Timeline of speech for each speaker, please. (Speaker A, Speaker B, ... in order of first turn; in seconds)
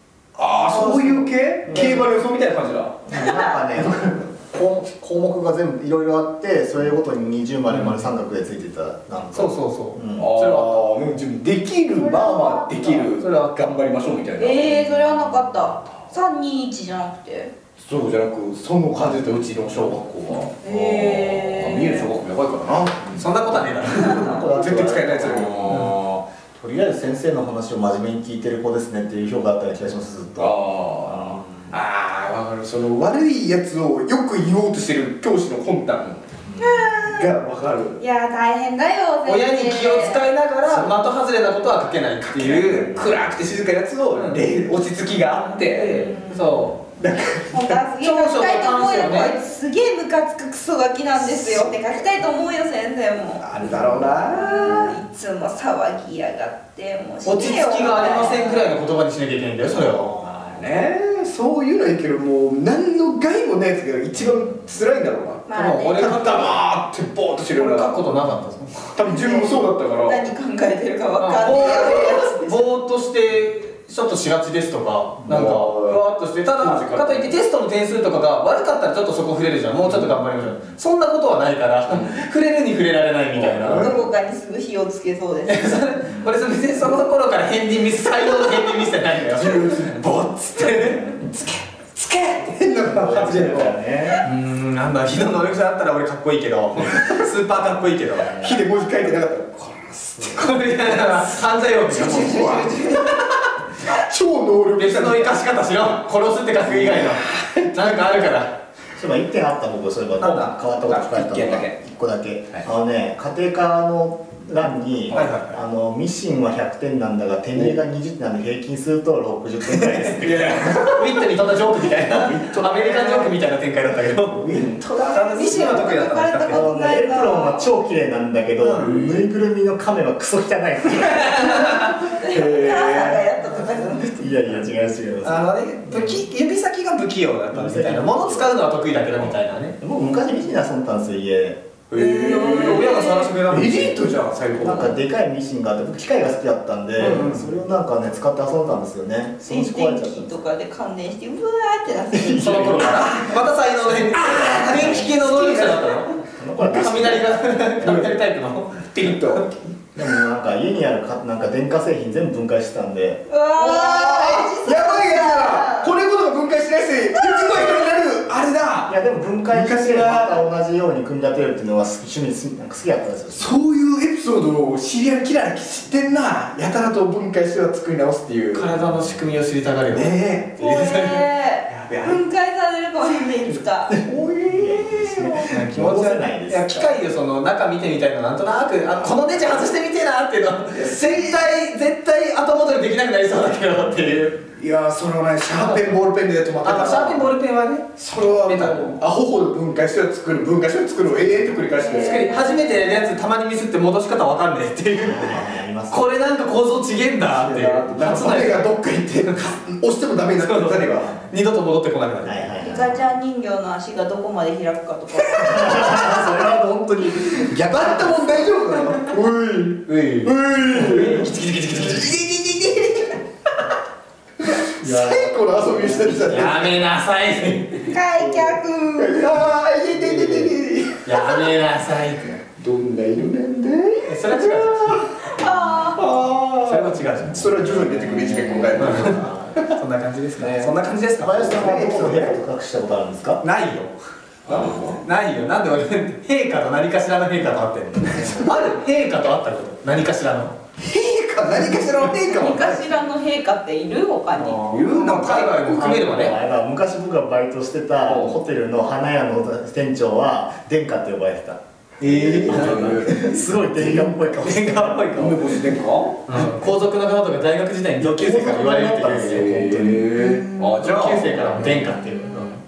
Speaker A: 0.3-3.0, 3.8-4.1, 10.2-15.1, 17.8-25.9, 30.4-36.2, 37.0-38.0, 40.7-40.9, 42.3-46.1, 47.0-47.8, 51.3-51.7, 53.4-55.0, 60.2-68.0, 68.9-70.2, 75.3-76.0, 76.6-77.3, 79.8-80.2, 81.9-82.2, 83.3-84.0, 89.2-93.7, 98.3-100.5, 101.8-105.4, 106.6-108.3, 110.6-111.7, 115.1-115.3, 119.7-121.2, 122.0-123.4, 124.3-125.9, 128.8-129.2, 132.2-133.3, 141.9-144.9, 152.8-153.4, 153.9-156.1, 157.8-158.2, 158.9-160.1, 163.6-169.0, 169.5-170.4, 173.3-179.0, 179.9-182.2, 183.1-185.5, 190.7-191.4, 194.5-197.3, 198.0-202.3, 207.3-211.1, 217.3-223.2, 224.4-226.8, 228.2-231.4, 232.6-235.4, 235.9-239.7, 241.3-242.4, 244.4-245.0, 248.2-248.6, 250.8-252.9, 254.6-255.8, 258.1-258.4, 262.0-263.8, 265.1-266.4, 269.2-271.8
Speaker B: 0.7-2.1, 7.7-8.1, 9.3-10.9, 13.2-13.7, 23.2-24.5, 25.7-25.9, 39.2-42.9, 44.1-44.4, 45.5-46.8, 48.0-49.3, 57.2-60.1, 65.5-66.6, 67.5-68.9, 71.2-84.0, 85.5-91.2, 94.2-98.4, 100.3-103.2, 104.8-108.5, 110.2-110.5, 115.1-115.5, 120.6-124.5, 125.1-126.7, 128.6-128.9, 131.0-132.0, 135.2-139.8, 141.9-144.9, 147.0-147.5, 152.4-159.4, 178.5-180.2, 180.7-181.1, 185.5-194.4, 195.5-196.0, 196.6-199.0, 201.9-208.7, 209.2-209.5, 210.4-212.5, 219.9-222.2, 224.8-225.2, 225.8-227.9, 230.0-230.5, 231.0-232.4, 234.1-235.1, 236.6-237.7, 238.2-239.2, 239.7-241.6, 243.4-243.9, 244.5-250.5, 254.8-256.4, 262.5-265.6, 266.3-269.6, 270.6-272.6
Speaker C: 3.0-10.3, 23.9-31.7, 36.4-36.9, 53.7-54.0, 59.8-60.6, 64.2-64.6, 68.2-68.5, 75.2-75.5, 86.1-86.4, 92.8-94.2, 98.2-98.6, 109.0-120.7, 126.5-131.7, 134.0-136.2, 137.5-138.5, 139.8-141.6, 144.6-150.3, 152.1-153.2, 154.7-155.1, 156.3-158.1, 159.9-163.2, 168.9-173.5, 184.5-187.0, 204.9-206.1, 212.2-213.0, 215.3-218.5, 237.9-239.6, 240.4-243.4, 247.9-248.5, 255.7-265.3, 268.0-270.2, 271.5-272.5
Speaker D: 3.1-3.6, 12.0-13.1, 14.4-17.5, 20.6-22.1, 23.9-24.4, 36.6-37.3, 38.0-40.2, 45.8-46.7, 47.5-53.4, 54.2-58.7, 65.5-66.2, 69.1-72.7, 83.8-85.9, 124.8-127.7, 131.3-134.1, 142.1-143.3, 149.4-152.7, 163.3-165.9, 167.1-167.9, 180.6-183.9, 201.7-203.1, 212.6-216.4, 227.8-229.3, 235.3-236.0, 252.2-255.3, 270.1-270.7, 272.1-272.6